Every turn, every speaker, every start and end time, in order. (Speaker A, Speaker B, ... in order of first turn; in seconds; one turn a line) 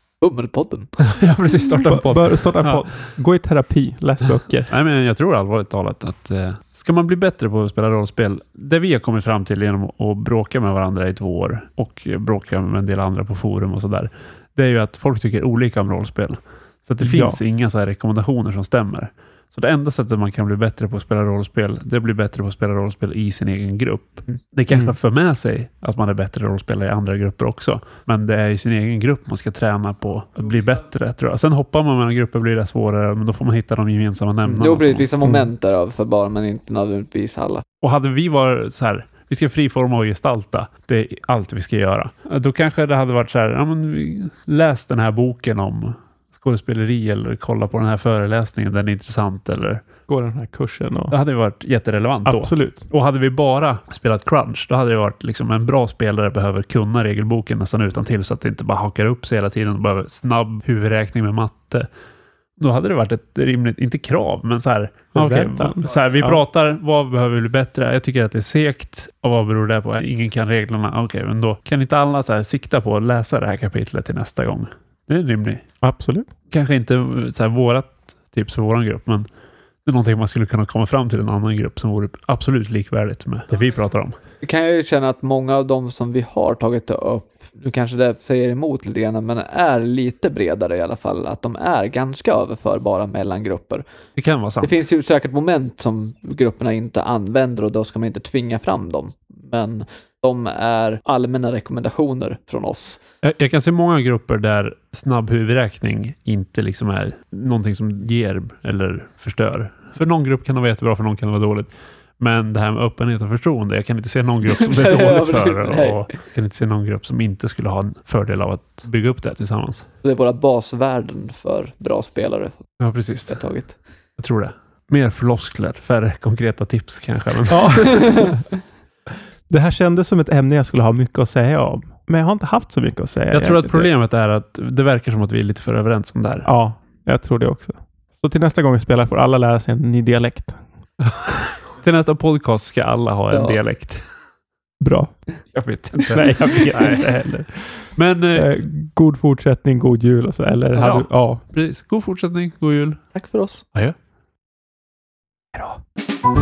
Speaker A: 0.2-1.0
Speaker B: 1.1-3.0
Speaker C: 1.9-4.7
Speaker B: 4.7-35.1
Speaker C: 17.0-17.4
Speaker C: 24.7-24.9
Speaker A: 34.5-37.6
Speaker B: 37.8-49.8
Speaker C: 50.1-51.1
Speaker B: 51.1-61.9
Speaker C: 52.2-52.8
Speaker B: 62.6-75.7
Speaker C: 65.2-66.4
Speaker C: 75.8-76.3
Speaker B: 76.5-79.3
Speaker B: 79.8-84.2
Speaker A: 84.4-93.8
Speaker B: 94.2-94.8
Speaker A: 94.6-103.0
Speaker B: 103.2-119.9
Speaker A: 114.6-116.1
Speaker A: 120.0-123.8
Speaker B: 122.8-128.3
Speaker C: 127.5-128.4
Speaker A: 128.0-128.4
Speaker C: 129.5-133.9
Speaker B: 133.3-136.5
Speaker C: 136.4-140.7
Speaker B: 141.0-144.1
Speaker A: 143.3-143.6
Speaker C: 144.8-151.4
Speaker B: 145.5-147.1
Speaker B: 148.0-148.6
Speaker B: 150.8-153.2
Speaker A: 153.1-153.6
Speaker C: 155.5-155.8